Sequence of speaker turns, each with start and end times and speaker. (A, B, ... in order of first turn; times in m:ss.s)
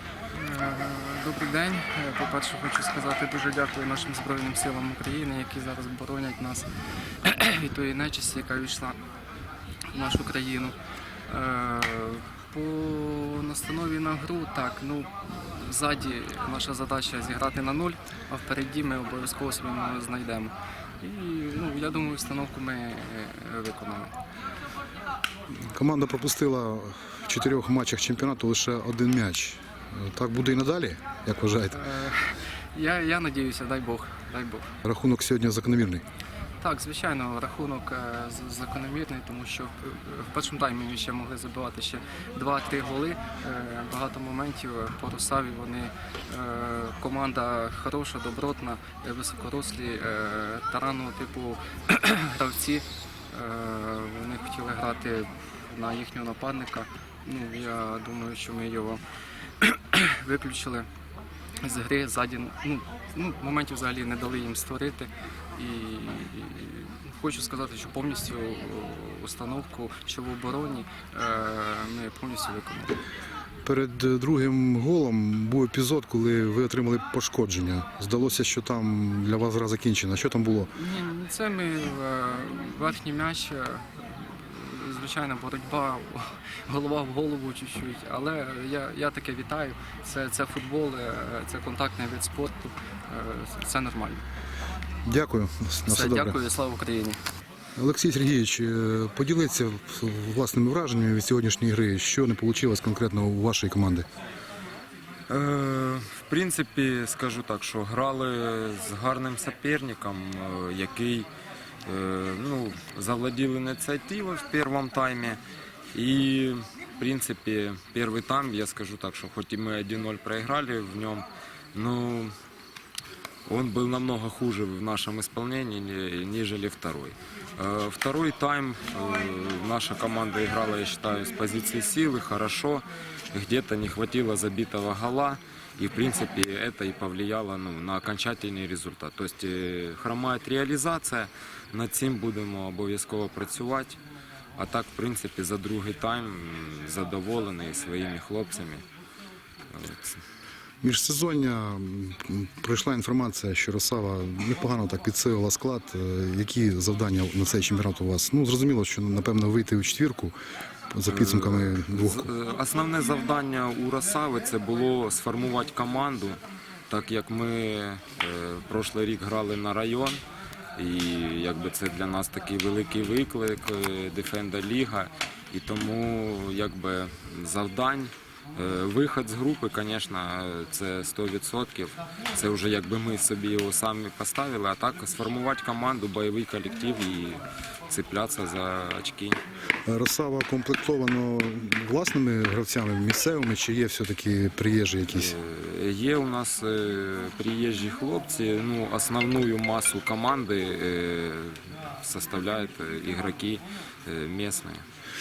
0:00.3-0:06.7 A
0:07.2-0:09.0 A
0:09.9-0:10.7 A
0:11.3-0:24.2 A
0:25.7-0:31.8 B
0:31.7-0:34.7 A
0:34.8-0:36.0 B
0:36.6-0:59.0 A
0:59.6-1:00.9 A
1:01.6-1:13.0 A
1:13.6-1:20.7 B
1:20.7-1:34.2 A
1:35.0-1:36.4 B
1:35.9-1:37.2 A
1:37.8-1:44.1 B
1:45.3-1:51.3 C
1:51.8-1:55.4 C
1:55.9-2:02.3 C
2:03.5-2:24.0 C
2:24.6-2:28.8 C
2:29.7-2:30.2 C
2:30.8-2:40.3 B
2:40.9-2:42.3 B
2:41.1-2:50.2 C
2:50.8-3:09.4 C
3:09.9-3:15.3 B
3:15.1-3:24.8 C